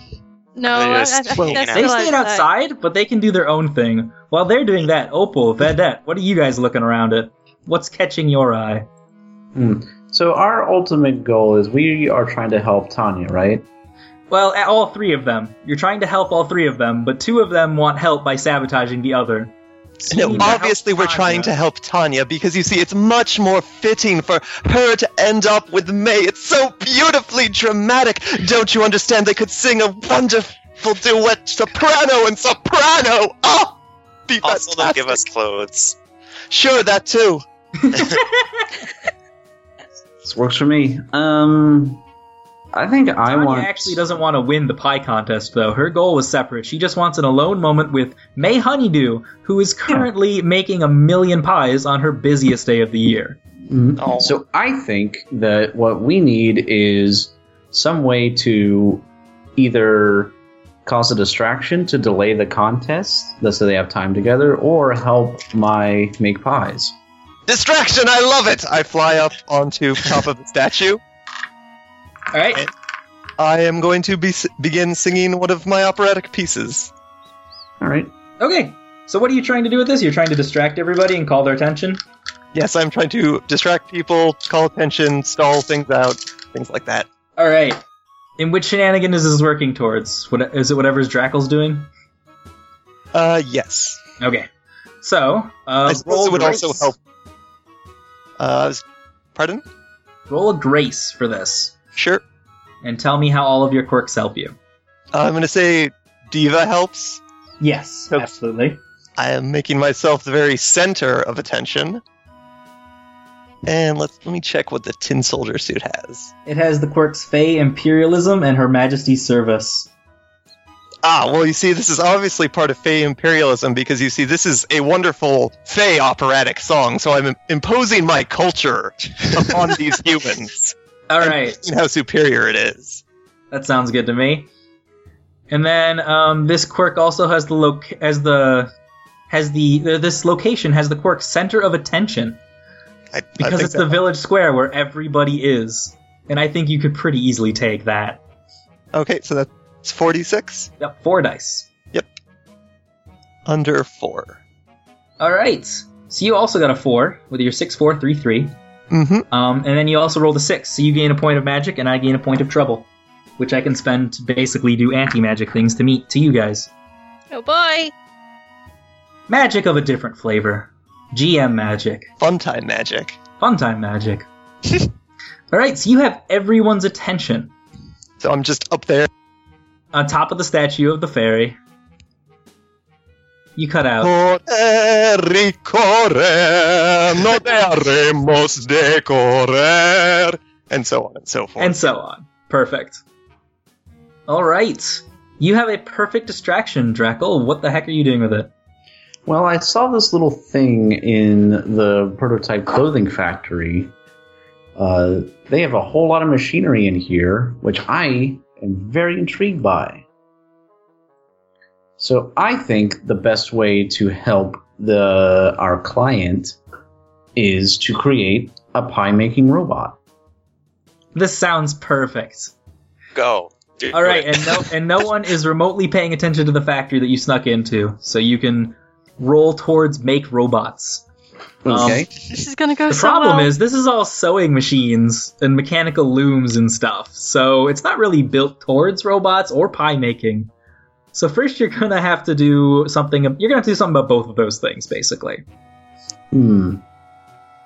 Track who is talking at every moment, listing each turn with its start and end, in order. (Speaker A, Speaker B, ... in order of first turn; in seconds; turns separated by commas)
Speaker A: 0.6-2.5, Speaker B: 0.7-1.9, Speaker C: 1.7-8.9, Speaker D: 9.5-13.6, Speaker C: 14.3-21.5, Speaker E: 20.1-35.2, Speaker B: 34.4-36.0, Speaker E: 36.5-37.4, Speaker C: 37.8-38.7, Speaker D: 40.2-42.0, Speaker D: 42.7-44.0, Speaker C: 43.3-53.4, Speaker D: 53.6-66.9, Speaker B: 54.0-54.3, Speaker E: 67.5-71.0, Speaker C: 72.3-72.7, Speaker E: 73.4-76.9, Speaker D: 77.8-78.1, Speaker C: 78.4-82.0, Speaker E: 82.5-87.1, Speaker C: 87.4-87.8, Speaker C: 88.4-91.9, Speaker E: 93.1-94.0, Speaker C: 94.2-94.5, Speaker C: 95.0-96.9, Speaker E: 95.8-97.0, Speaker E: 98.4-98.8, Speaker E: 99.3-99.6, Speaker C: 100.3-101.7, Speaker E: 101.9-102.2, Speaker C: 102.8-104.6, Speaker E: 105.1-107.2, Speaker C: 107.6-108.8, Speaker E: 109.2-112.0, Speaker E: 113.6-116.3, Speaker C: 116.5-119.9, Speaker E: 121.0-133.0, Speaker C: 131.1-131.6, Speaker C: 133.5-134.5, Speaker C: 135.5-138.7, Speaker C: 139.3-142.4, Speaker E: 143.1-144.0, Speaker C: 143.4-148.2, Speaker E: 148.9-150.7, Speaker C: 150.8-151.7, Speaker E: 153.4-154.4, Speaker C: 155.2-158.5, Speaker E: 158.9-159.2, Speaker C: 159.3-162.9, Speaker C: 163.4-166.7, Speaker A: 167.3-167.9, Speaker C: 169.3-172.1, Speaker E: 172.2-173.2, Speaker C: 173.4-174.3, Speaker C: 175.5-177.5, Speaker E: 178.2-179.1, Speaker C: 179.9-181.6, Speaker C: 183.6-184.1, Speaker E: 184.0-191.8, Speaker C: 191.6-193.0, Speaker C: 194.3-198.5, Speaker D: 199.2-203.9, Speaker D: 204.8-210.0, Speaker D: 212.0-216.6, Speaker D: 217.3-220.0, Speaker C: 221.1-222.5, Speaker B: 223.1-224.7, Speaker C: 223.9-231.0, Speaker D: 231.6-232.1, Speaker C: 231.7-232.1, Speaker A: 232.2-233.5, Speaker C: 232.9-240.5, Speaker C: 241.1-245.4, Speaker D: 246.3-246.8